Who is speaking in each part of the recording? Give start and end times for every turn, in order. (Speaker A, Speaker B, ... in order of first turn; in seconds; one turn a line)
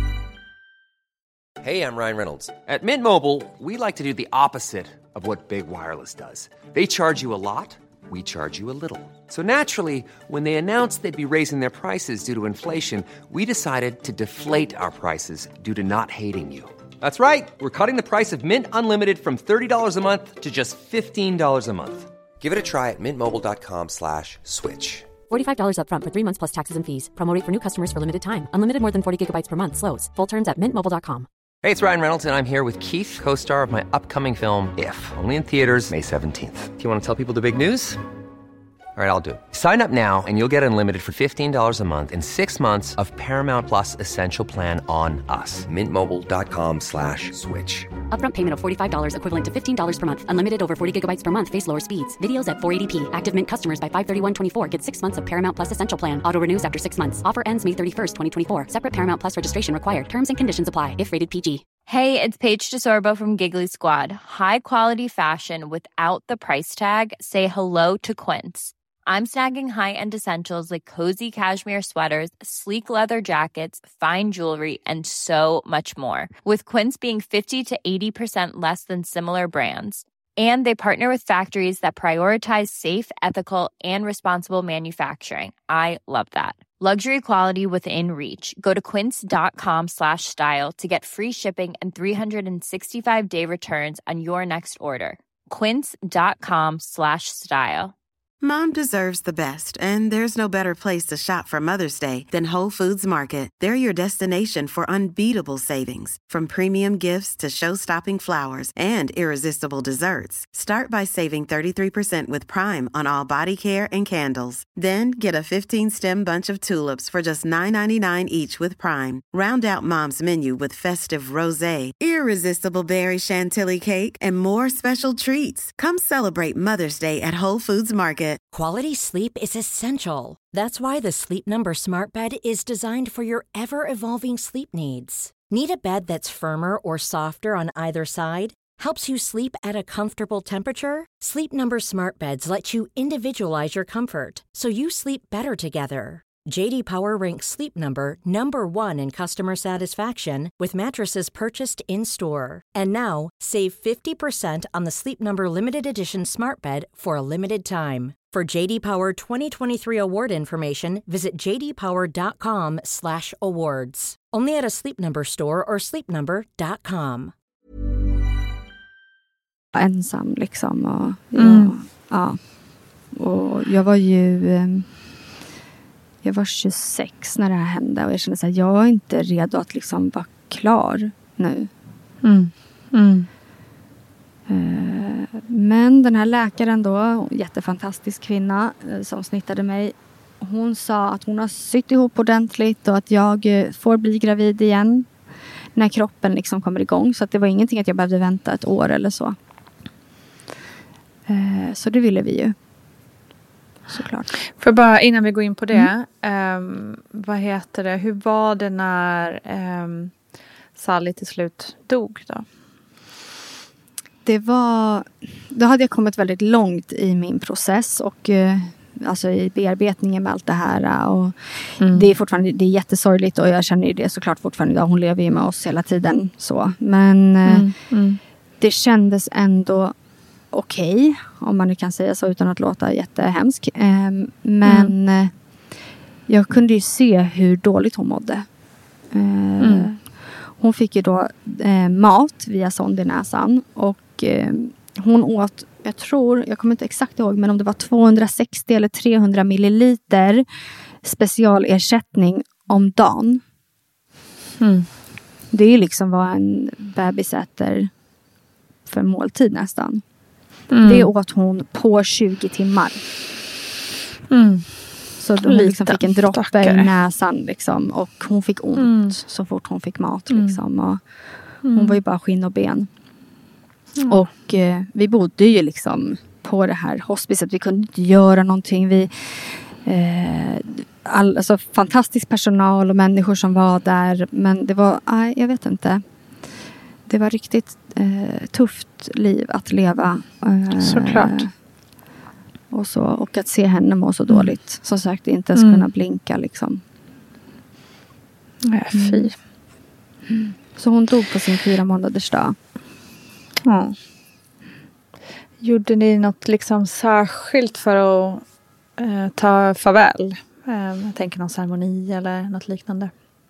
Speaker A: 1.6-25.1
Speaker B: 25.3-31.3
Speaker A: 31.6-38.0
Speaker A: 39.0-47.9
Speaker B: 48.1-61.7
Speaker C: 61.9-97.9
Speaker D: 98.4-128.4
Speaker E: 128.5-167.3
Speaker F: 169.7-172.5
Speaker G: 171.3-171.7
Speaker F: 173.1-174.9
Speaker F: 176.2-181.7
Speaker G: 182.2-183.3
Speaker F: 184.5-195.1
Speaker F: 195.7-199.3
Speaker F: 201.3-202.5
Speaker F: 203.9-204.3
Speaker G: 204.6-210.2
Speaker G: 210.7-212.5
Speaker F: 214.2-227.7
Speaker G: 221.8-222.1
Speaker G: 227.4-228.2
Speaker F: 228.6-229.9
Speaker F: 230.5-235.7
Speaker G: 234.6-234.9
Speaker F: 236.3-238.5
Speaker F: 239.1-250.4
Speaker G: 239.6-239.9
Speaker F: 251.0-253.4
Speaker G: 254.6-254.9
Speaker F: 255.5-257.9
Speaker F: 258.9-260.0
Speaker G: 260.7-261.1
Speaker F: 260.8-263.0
Speaker G: 264.3-264.9
Speaker F: 265.2-272.9
Speaker G: 265.4-266.9
Speaker G: 268.8-269.2
Speaker G: 270.3-270.6
Speaker G: 271.6-272.0
Speaker F: 274.1-286.0
Speaker F: 287.1-291.5
Speaker G: 290.8-291.4
Speaker F: 292.7-296.8
Speaker G: 295.5-295.9
Speaker G: 298.6-299.4
Speaker F: 298.9-299.3
Speaker F: 300.3-302.6
Speaker G: 303.6-304.0
Speaker G: 305.6-308.4
Speaker G: 309.0-313.1